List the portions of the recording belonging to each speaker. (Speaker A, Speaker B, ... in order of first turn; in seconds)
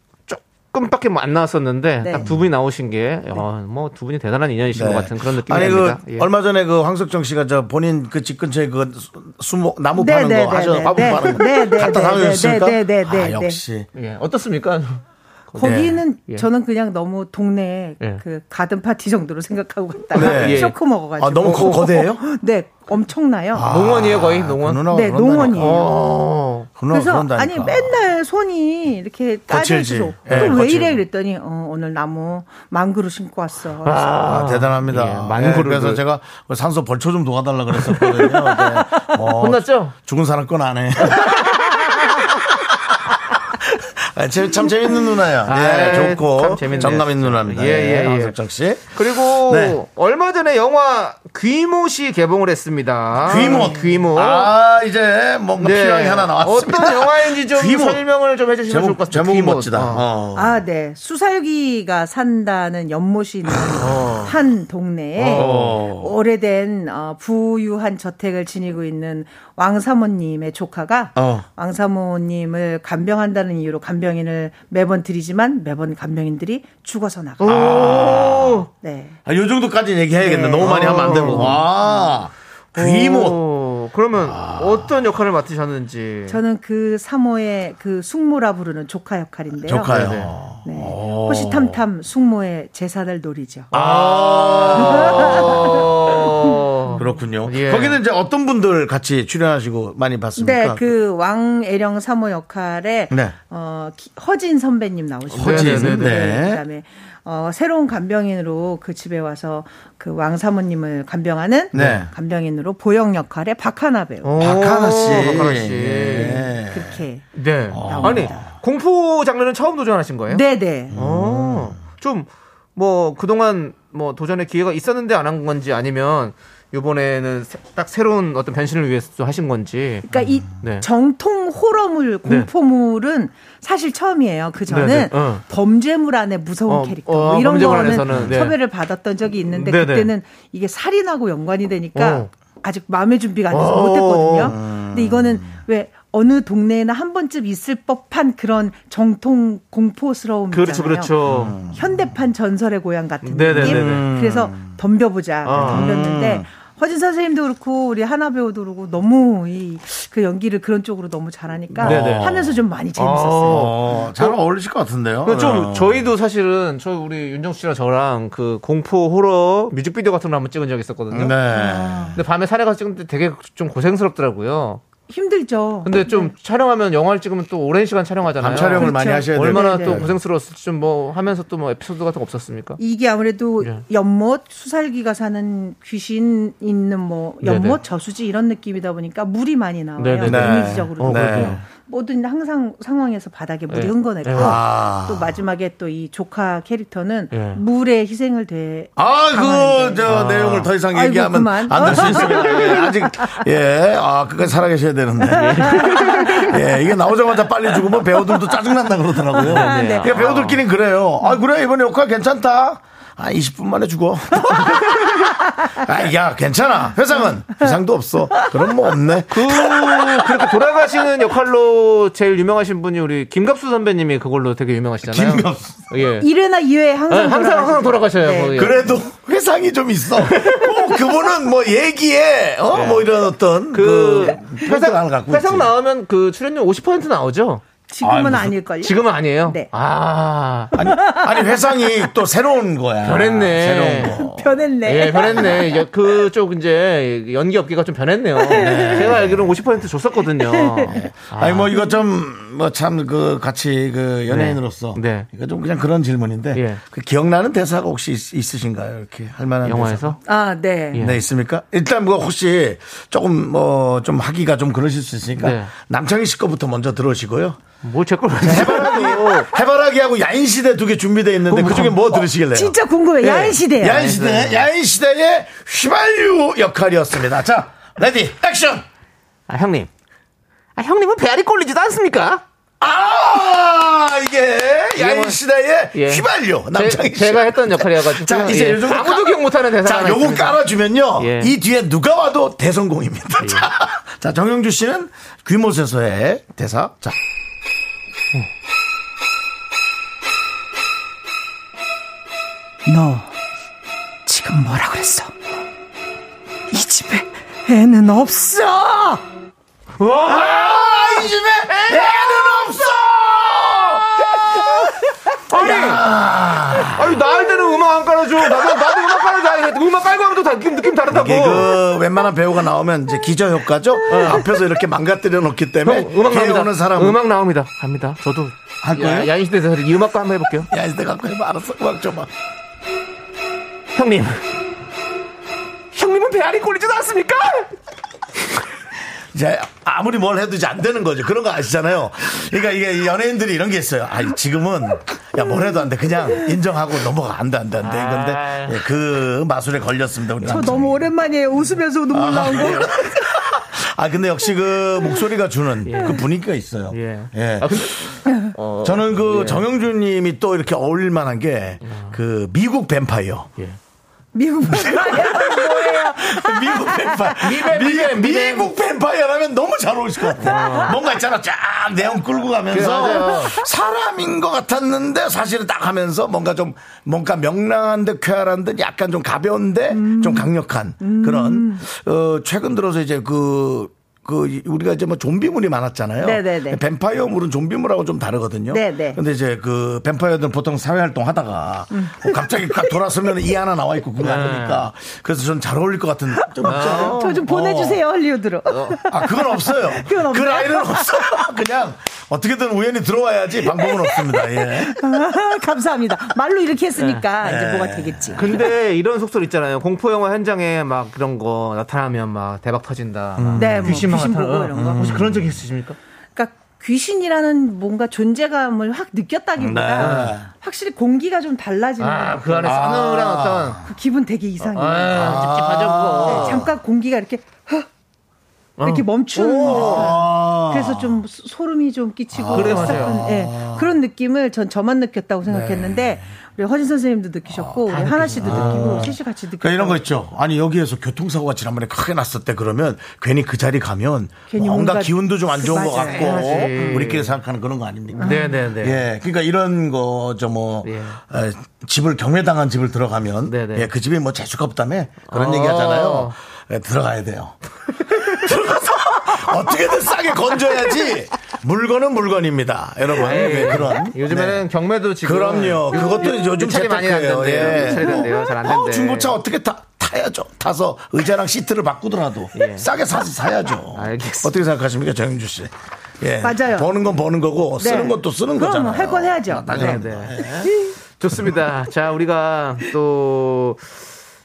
Speaker A: 0.3-6.3, 13.9-16.5, 20.1-20.8, 21.4-21.9, 23.6-24.9, 25.5-26.7, 30.3-31.0, 33.8-36.0, 37.8-39.9, 41.0-42.1, 45.5-48.4, 48.9-54.5, 55.6-60.0, 63.8-64.3, 65.2-65.8, 77.4-78.7, 80.6-81.6, 82.8-86.4, 89.9-90.4, 93.7-98.0, 105.3-106.2, 111.8-112.0, 114.2-116.5, 117.3-130.1, 130.6-130.9, 132.2-132.5, 134.7-135.4, 136.7-138.6, 139.5-140.1, 141.9-142.3, 143.5-144.6, 150.5-151.6, 153.2-154.1, 155.4-155.9, 161.7-164.4, 165.2-171.4, 172.1-174.8, 175.8-182.8, 187.4-187.8, 190.0-191.6, 193.7-194.6, 197.3-197.6, 200.1-200.7, 201.8-202.6, 205.3-206.5, 209.4-210.6, 219.3-226.3, 227.1-228.9, 230.2-230.7, 232.7-233.1, 233.7-237.6, 238.8-240.8, 243.0-244.2, 244.8-251.7, 254.3-255.3, 256.5-256.8, 259.6-260.2, 260.9-261.2, 265.4-265.7, 267.8-269.5, 271.5-272.0, 273.3-274.7, 279.5-279.9, 280.8-282.4, 285.0-285.4, 285.9-290.6, 291.2-291.5, 293.4-293.7, 310.0-310.9, 311.7-312.2, 314.5-314.9, 315.5-316.0, 316.9-321.8, 324.1-324.4, 325.8-330.7, 333.9-334.4, 335.9-337.7, 347.8-348.8, 355.9-356.2, 356.9-359.7, 361.8-362.2, 367.4-368.7, 370.4-371.0, 372.7-373.6, 394.2-394.9, 396.6-397.4, 398.7-399.0, 407.0-407.2, 408.4-416.0, 420.0-420.4, 422.0-423.8, 424.6-426.7, 428.8-430.2, 432.5-433.2, 437.9-439.1, 445.9-447.4, 448.2-449.0, 450.8-451.2, 453.5-453.9, 455.3-456.4, 463.1-469.4, 472.6-472.9, 473.9-474.6, 479.7-480.4, 481.2-483.9
Speaker B: 2.0-2.3, 10.0-13.6, 15.6-23.7, 24.9-26.0, 26.9-34.2, 53.3-53.8, 60.4-77.7, 78.7-79.2, 80.2-82.0, 86.3-90.0, 90.6-93.7, 94.8-96.5, 100.4-114.3, 116.6-118.4, 120.3-121.0, 130.1-163.7, 171.6-172.2, 175.1-176.3, 178.6-180.1, 182.8-200.1, 200.8-203.5, 205.3-206.6, 209.4-210.1, 226.2-229.0, 237.9-239.7, 240.8-241.6, 244.1-245.9, 248.4-249.3, 250.4-251.0, 260.3-261.0, 272.4-274.2, 302.9-303.3, 304.3-305.3, 306.7-309.2, 350.4-353.2, 364.3-367.4, 370.5-370.9, 379.9-381.9, 386.2-386.8, 388.7-389.2, 391.9-392.9, 396.4-401.5, 403.7-408.6, 413.6-415.2, 416.4-422.9, 423.8-425.4, 426.2-427.9, 428.8-440.0, 444.5-447.1, 448.2-448.6, 467.8-468.3, 476.4-476.9, 477.8-480.9
Speaker C: 4.7-13.9, 15.6-16.0, 20.1-22.2, 23.5-25.9, 26.8-28.0, 29.5-30.9, 34.2-49.8, 53.2-58.0, 58.7-60.6, 65.3-66.1, 71.2-71.5, 77.4-78.6, 79.3-83.4, 84.2-84.9, 89.7-91.8, 93.7-96.3, 97.0-100.9, 103.1-103.4, 105.3-106.6, 111.7-112.1, 114.4-117.0, 117.7-118.4, 120.9-121.8, 138.1-138.4, 144.5-145.6, 151.3-152.0, 153.5-154.8, 155.5-156.5, 161.8-162.6, 163.5-166.1, 171.1-172.2, 178.4-180.1, 190.2-191.6, 194.4-195.3, 199.0-220.5, 225.1-225.9, 228.6-235.7, 238.0-238.6, 240.7-244.6, 248.5-249.5, 250.9-260.2, 260.9-267.6, 268.4-278.9, 282.8-297.2, 310.3-314.8, 315.6-317.4, 318.4-319.4, 321.1-327.2, 328.8-329.3, 330.7-332.3, 339.2-351.1, 352.1-358.1, 358.8-363.5, 364.7-398.0, 399.1-405.2, 407.4-408.6, 413.4-414.2, 414.7-415.6, 419.6-420.5, 422.6-423.8, 425.1-426.7, 429.4-431.2, 432.3-433.9, 435.5-436.2, 437.5-464.7, 465.2-480.7